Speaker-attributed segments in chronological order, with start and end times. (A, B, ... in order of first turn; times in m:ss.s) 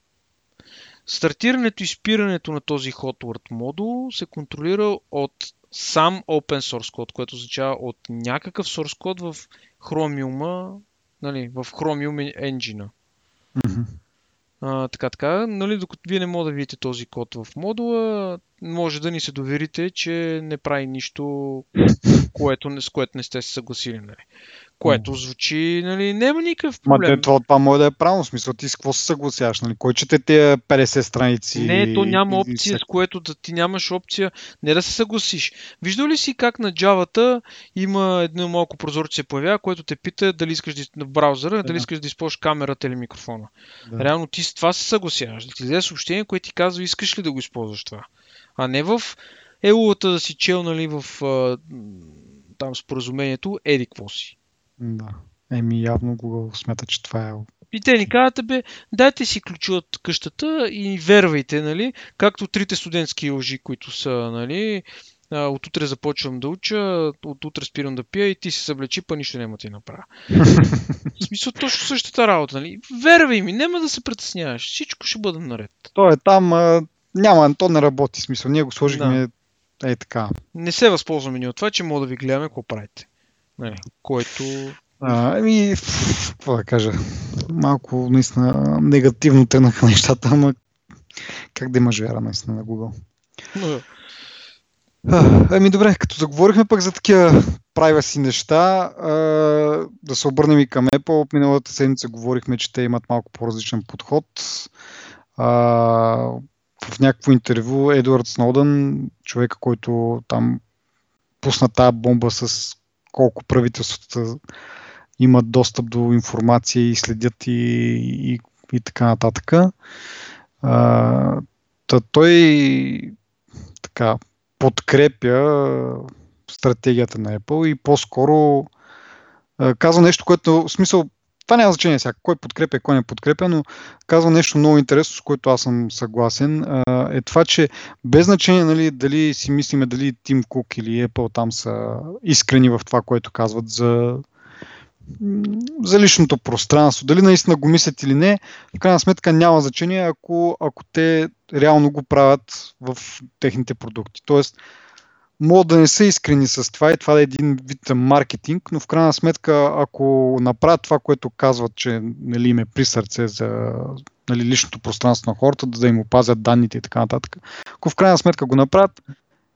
0:01.0-0:12.9 A
0:13.6-0:13.9 B
0:14.6-0:21.7 A
0:22.2-0:24.2 A
0:24.8-0:27.2 A
0:26.8-0:32.8 B
0:31.5-0:54.3 A
0:54.8-0:57.5 B
0:57.7-1:10.1 A
1:10.4-1:10.9 B
1:11.2-1:15.9 A
1:15.9-1:19.3 B
1:18.8-1:19.2 A
1:19.8-1:20.4 B
1:20.5-1:23.1 A
1:23.6-1:24.8 A
1:25.0-1:30.5 B
1:31.5-1:32.9 B
1:33.5-1:33.9 A
1:35.1-1:44.7 B
1:45.4-1:50.6 B
1:51.4-1:54.4 B
1:55.2-1:59.7 B
2:00.6-2:03.1 B
2:03.8-2:08.7 B
2:09.6-2:24.2 B
2:25.2-2:34.6 B
2:35.4-2:49.0 B